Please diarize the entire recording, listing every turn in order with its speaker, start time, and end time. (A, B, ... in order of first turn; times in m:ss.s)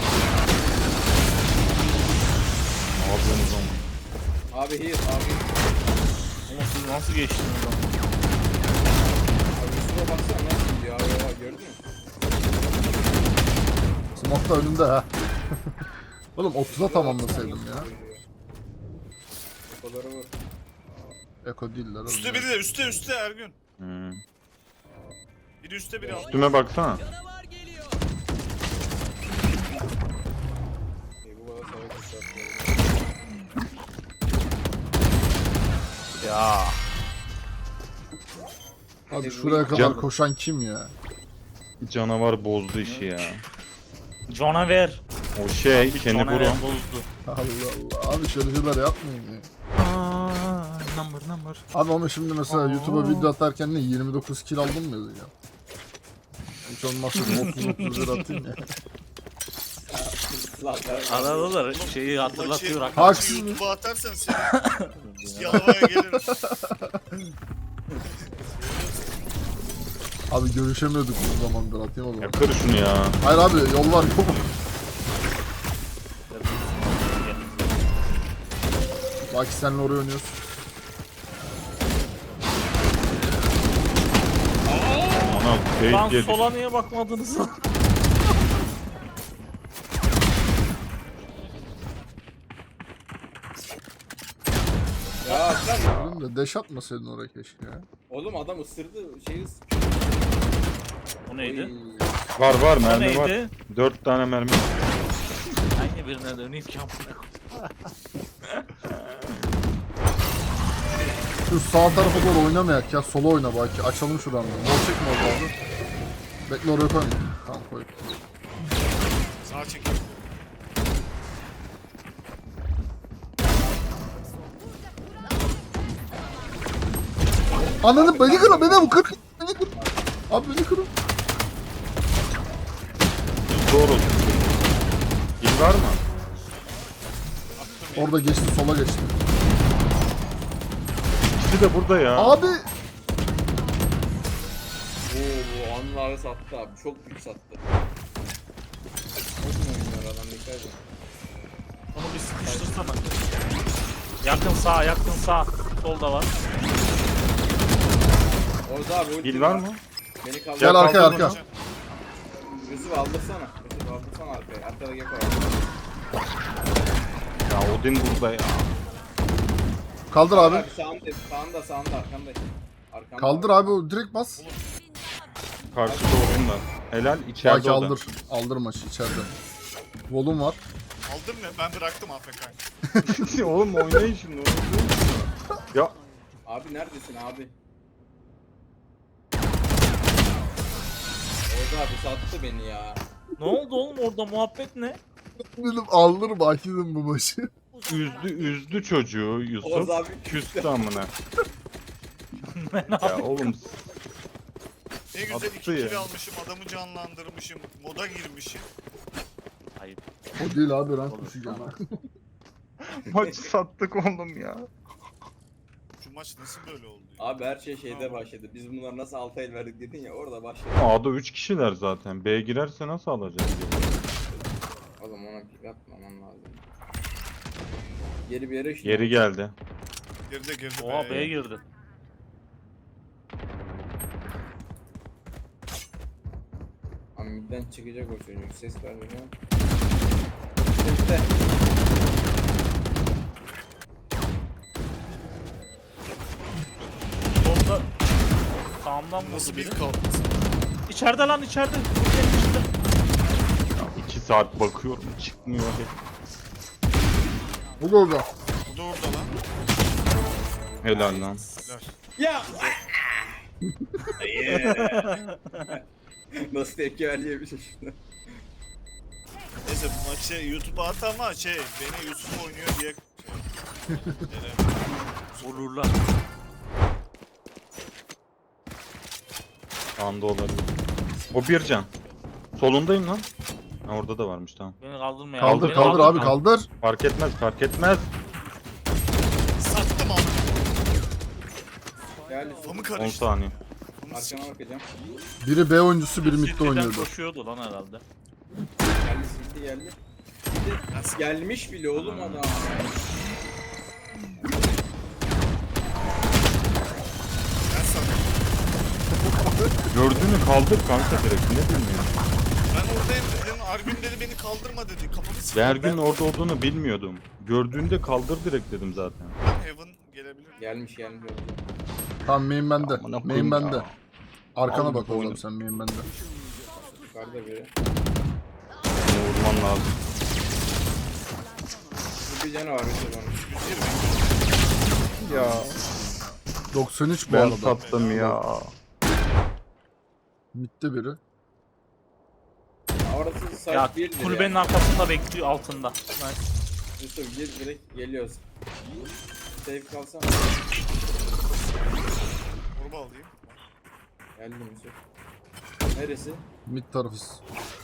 0:02.9-0:03.8 A
0:04.5-0:05.7 B
0:06.5-0:07.8 C
0:09.5-0:11.8 B
0:14.2-0:15.6 D
0:16.3-0:17.9 D
0:16.7-0:18.2 B
0:19.7-0:20.4 B
0:21.4-0:22.5 D
0:22.0-0:23.6 E
0:23.8-0:24.2 A
0:25.6-0:26.5 E
0:26.0-0:26.6 B
0:26.1-0:27.0 A
0:31.2-0:33.1 B
0:36.2-0:36.8 C
0:39.1-0:40.1 B
0:39.1-0:40.9 D
0:39.7-0:40.0 A
0:41.8-0:43.4 A
0:42.8-0:43.3 C
0:44.3-0:45.0 C
0:45.3-0:46.6 A
0:45.7-0:47.0 C
0:47.2-0:49.5 D
0:49.7-0:51.6 A
0:51.7-0:55.3 D
0:52.5-0:53.3 A
0:56.6-0:58.6 D
0:57.2-0:57.6 A
0:57.4-0:58.2 C
0:59.9-1:01.6 B
1:01.1-1:03.4 C
1:01.6-1:04.7 E
1:03.0-1:03.7 D
1:04.4-1:05.7 C
1:05.3-1:06.3 E
1:05.5-1:07.2 D
1:08.4-1:09.1 E
1:10.3-1:12.5 D
1:12.2-1:13.2 A
1:13.2-1:14.5 D
1:16.3-1:17.4 C
1:19.3-1:20.4 D
1:24.6-1:25.4 B
1:25.1-1:26.4 A
1:25.8-1:27.6 C
1:35.2-1:36.1 B
1:35.7-1:37.9 D
1:35.8-1:36.2 A
1:38.1-1:40.6 B
1:41.3-1:41.7 C
1:41.4-1:42.1 B
1:42.4-1:44.8 A
1:42.8-1:43.5 C
1:45.7-1:47.9 C
1:48.5-1:49.3 C
1:51.5-1:55.5 D
1:56.5-1:58.1 D
1:59.4-2:00.3 E
2:07.5-2:09.1 B
2:07.8-2:09.7 D
2:09.7-2:10.2 B
2:10.3-2:10.9 D
2:13.5-2:14.6 A
2:15.4-2:16.0 A
2:17.5-2:18.2 E
2:17.9-2:19.2 D
2:21.3-2:22.4 A
2:22.2-2:22.7 D
2:25.0-2:27.6 B
2:29.4-2:30.8 B
2:31.9-2:33.2 C
2:32.4-2:33.0 B
2:34.2-2:36.3 C
2:38.6-2:39.7 B
2:39.2-2:39.8 A
2:40.2-2:40.9 B
2:40.6-2:41.4 A
2:40.6-2:41.4 D
2:40.8-2:41.5 E
2:42.6-2:45.6 B
2:47.4-2:48.7 A
2:50.1-2:50.6 D
2:50.3-2:53.8 B
2:53.2-2:54.5 D
2:54.4-2:54.6 E
2:55.7-2:58.0 A
2:55.8-2:56.5 B
2:57.4-2:59.3 D
3:00.1-3:00.6 D
3:01.0-3:02.6 E
3:02.9-3:04.0 D
3:03.0-3:06.0 A
3:06.4-3:07.6 B
3:11.5-3:13.0 B
3:13.4-3:15.0 C
3:15.5-3:17.5 D
3:17.9-3:21.1 A
3:19.6-3:21.0 B
3:22.5-3:23.2 C
3:23.0-3:23.8 A
3:25.1-3:28.7 E
3:25.3-3:26.1 A
3:29.8-3:30.4 C
3:30.4-3:31.8 D
3:31.1-3:31.8 C
3:32.9-3:34.6 A
3:33.1-3:33.5 B
3:36.0-3:38.3 E
3:37.2-3:40.9 B
3:40.8-3:44.0 A
3:45.0-3:46.6 B
3:48.2-3:49.2 B
3:48.8-3:49.5 A
3:50.3-3:51.3 E
3:50.8-3:51.6 C
3:57.2-3:59.3 B
4:00.7-4:01.3 B
4:07.4-4:07.9 C
4:08.8-4:09.8 C
4:09.1-4:10.4 E
4:10.9-4:12.7 C
4:13.8-4:15.9 A
4:17.8-4:18.3 D
4:18.6-4:19.3 E
4:20.8-4:21.5 A
4:21.5-4:21.9 E
4:22.2-4:23.4 B
4:24.2-4:25.8 B
4:24.4-4:25.7 C
4:26.3-4:28.0 B
4:29.6-4:33.5 E
4:33.9-4:34.2 D
4:34.1-4:35.7 E
4:35.4-4:35.9 C
4:40.0-4:40.7 A
4:41.3-4:41.9 A
4:42.6-4:43.3 A
4:43.8-4:44.8 A
4:44.8-4:46.3 C
4:45.4-4:46.7 D
4:45.4-4:48.1 A
4:49.6-4:50.6 E
4:52.2-4:53.0 B
4:52.6-4:54.4 E
4:52.9-4:53.6 A
4:54.1-4:54.9 B
4:55.4-4:57.1 D
4:56.2-4:58.0 C
4:59.0-5:00.0 B
5:00.5-5:03.0 B
5:00.9-5:01.2 E
5:01.9-5:02.8 A
5:07.7-5:08.4 E
5:09.3-5:09.8 D
5:09.9-5:12.1 A
5:12.7-5:16.1 E
5:15.5-5:19.4 A
5:19.4-5:20.7 E
5:20.6-5:21.6 B
5:22.2-5:23.9 D
5:22.8-5:23.9 A
5:24.6-5:26.1 D
5:24.7-5:25.4 A
5:27.0-5:27.7 B
5:28.9-5:29.9 A
5:32.2-5:33.8 B
5:33.4-5:34.4 E
5:35.2-5:37.9 D
5:35.2-5:35.7 A
5:37.2-5:38.7 A
5:37.6-5:38.4 E
5:40.5-5:41.2 D
5:43.0-5:44.6 B
5:43.7-5:46.5 C
5:47.0-5:48.4 B
5:49.6-5:50.4 B
5:52.7-5:53.6 E
5:54.4-5:55.0 B
5:55.9-5:56.4 B
5:56.6-5:57.4 D